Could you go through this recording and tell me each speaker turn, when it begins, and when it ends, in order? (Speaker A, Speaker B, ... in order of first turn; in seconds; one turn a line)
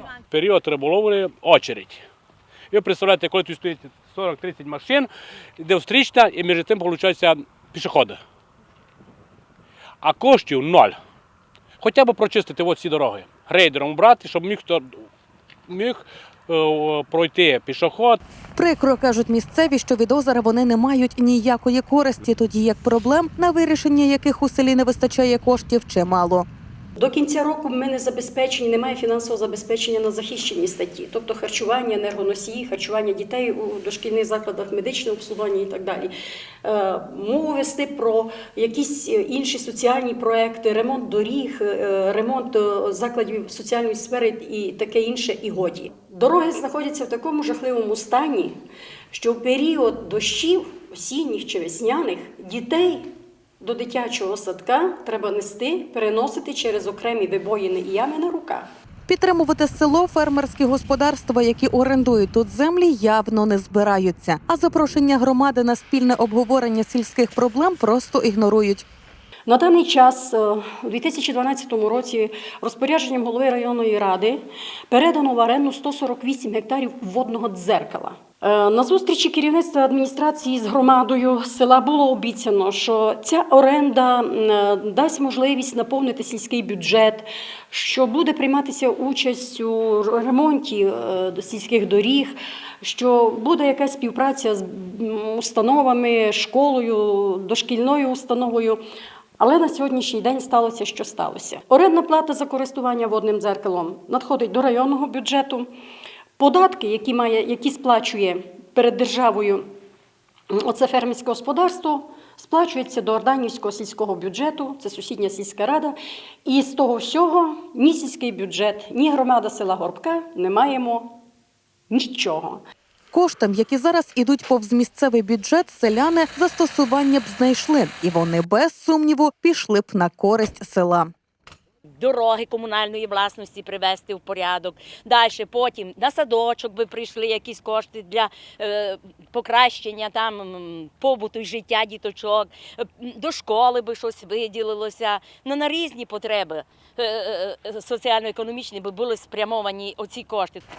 Speaker A: 0.3-2.0
Speaker A: 2.7-8.2
Speaker A: 10.0-10.9
Speaker A: 11.8-14.9
Speaker A: 15.7-18.2
Speaker B: 18.6-26.5
Speaker C: 26.9-36.1
Speaker C: 36.6-48.5
Speaker C: 49.1-58.7
Speaker B: 59.1-68.8
Speaker C: 69.5-98.8
Speaker C: 99.4-105.7
Speaker C: 106.4-109.7
Speaker C: 110.5-121.2
Speaker C: 121.9-122.6
Speaker B: 123.1-131.1
Speaker D: 132.0-150.6